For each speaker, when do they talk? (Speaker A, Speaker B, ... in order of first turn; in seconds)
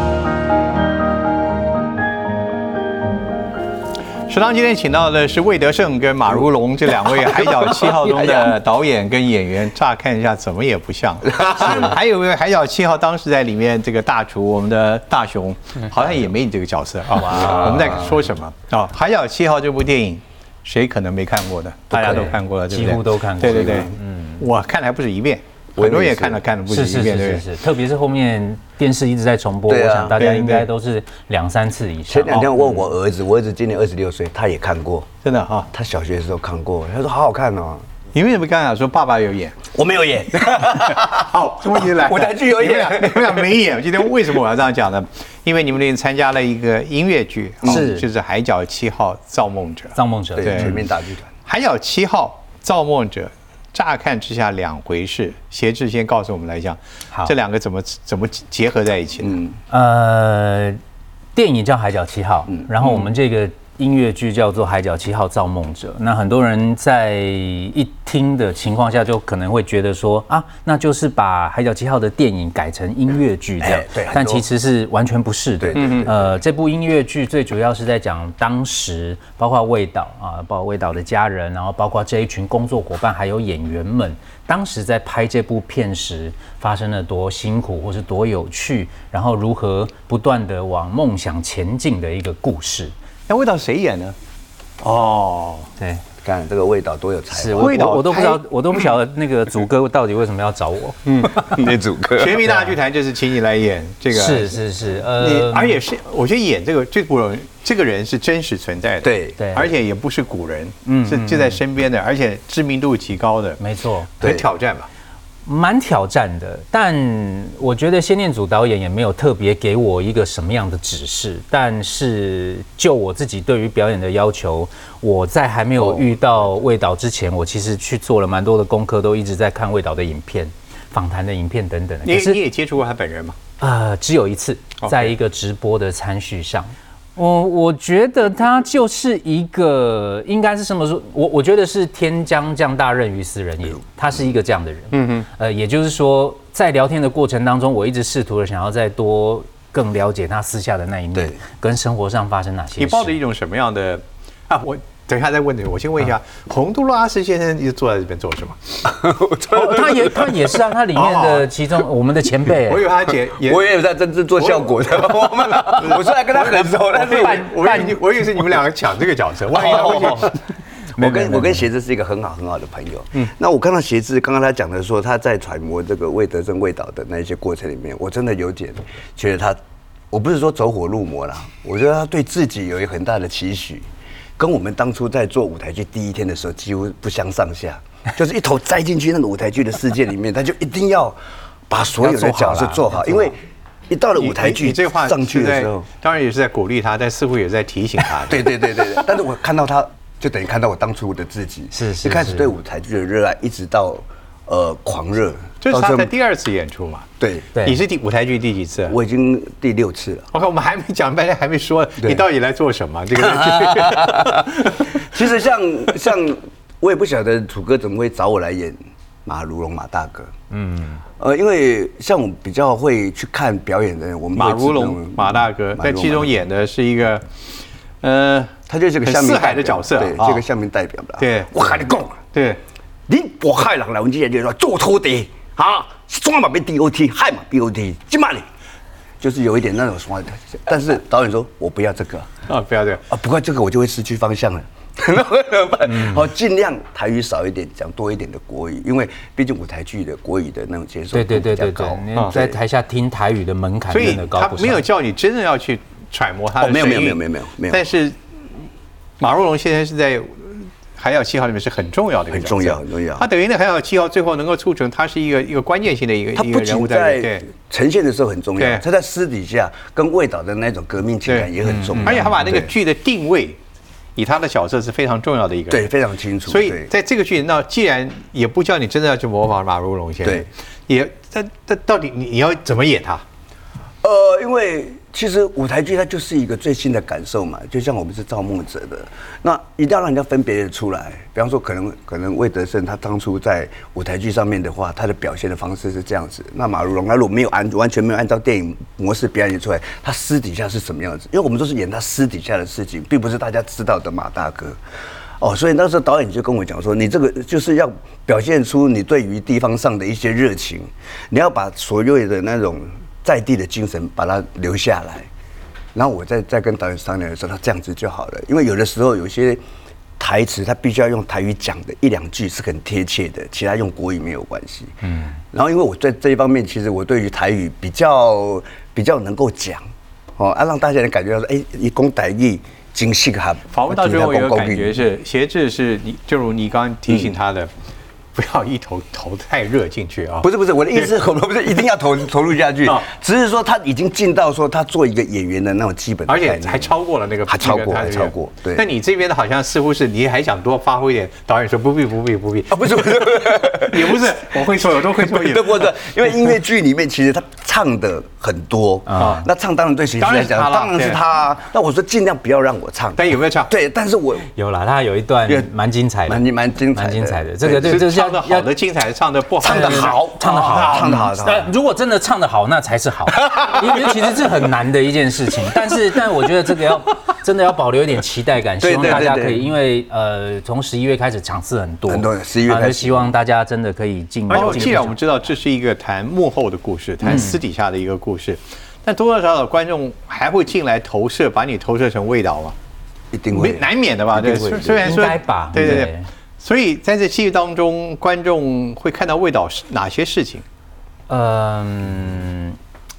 Speaker A: 4.3-27.4, 30.2-30.7, 35.2-35.7, 38.1-39.6, 40.8-50.8, 51.5-59.4, 75.7-76.1, 93.3-94.1, 94.8-95.7, 97.5-98.4, 102.1-104.6, 105.2-113.6, 114.2-114.9, 132.0-133.4, 134.8-135.1, 144.9-145.3, 152.8-158.7, 160.9-161.5, 162.4-163.7, 164.4-170.3, 194.2-198.9, 205.6-208.9, 210.3-215.0, 224.3-227.4, 228.0-230.4, 231.2-231.7, 232.3-232.6, 242.5-243.0, 253.9-258.1, 259.2-267.4, 268.6-268.8, 271.3-273.6, 274.1-275.9, 276.5-283.2, 333.7-337.7, 338.3-341.1, 346.3-355.9, 359.2-359.4, 360.2-361.2, 363.2-363.7, 367.7-371.2, 384.5-392.7, 393.5-400.6
Speaker B: 7.1-8.5, 11.3-11.9, 17.3-18.1, 21.9-22.3, 23.6-23.9, 25.8-26.4, 29.7-30.2, 32.1-35.1, 35.7-37.9, 39.7-43.5, 50.4-51.3, 59.2-59.5, 73.6-74.5, 75.6-76.2, 96.2-97.8, 101.2-102.5, 109.0-109.3, 158.8-160.3, 163.4-167.5, 169.5-170.3, 171.0-179.6, 180.1-183.9, 184.4-191.2, 191.7-193.3, 193.9-195.9, 198.2-206.1, 207.2-207.5, 208.9-210.3, 213.1-220.3, 221.2-226.3, 228.7-232.2, 233.1-238.4, 239.2-242.3, 243.1-252.6, 256.6-257.8, 262.3-263.2, 266.4-272.7, 275.7-276.9, 284.0-304.8, 305.4-315.3, 315.9-319.6, 320.2-329.8, 330.4-335.0, 337.1-337.4, 340.4-346.9, 347.4-348.9, 352.7-364.5, 366.3-367.9, 369.6-371.7, 378.8-379.6, 382.1-383.3, 393.3-395.1
Speaker C: 22.0-24.4, 26.7-32.6, 47.6-48.0, 50.0-50.8, 59.7-60.8, 61.3-92.9, 95.8-96.0, 97.3-101.4, 102.4-102.7, 104.1-105.8, 109.4-109.7, 110.8-111.6, 113.6-114.1, 115.5-132.4, 133.6-153.2, 159.5-162.8, 167.0-168.0, 169.8-170.2, 171.0-171.6, 192.0-193.3, 201.7-202.5, 207.5-207.8, 220.5-221.0, 245.8-246.2, 251.1-254.8, 271.7-272.3, 325.1-325.3, 359.1-359.4, 364.5-366.4, 366.9-368.7, 369.6-385.2, 387.2-387.6, 395.0-396.3, 401.3-402.8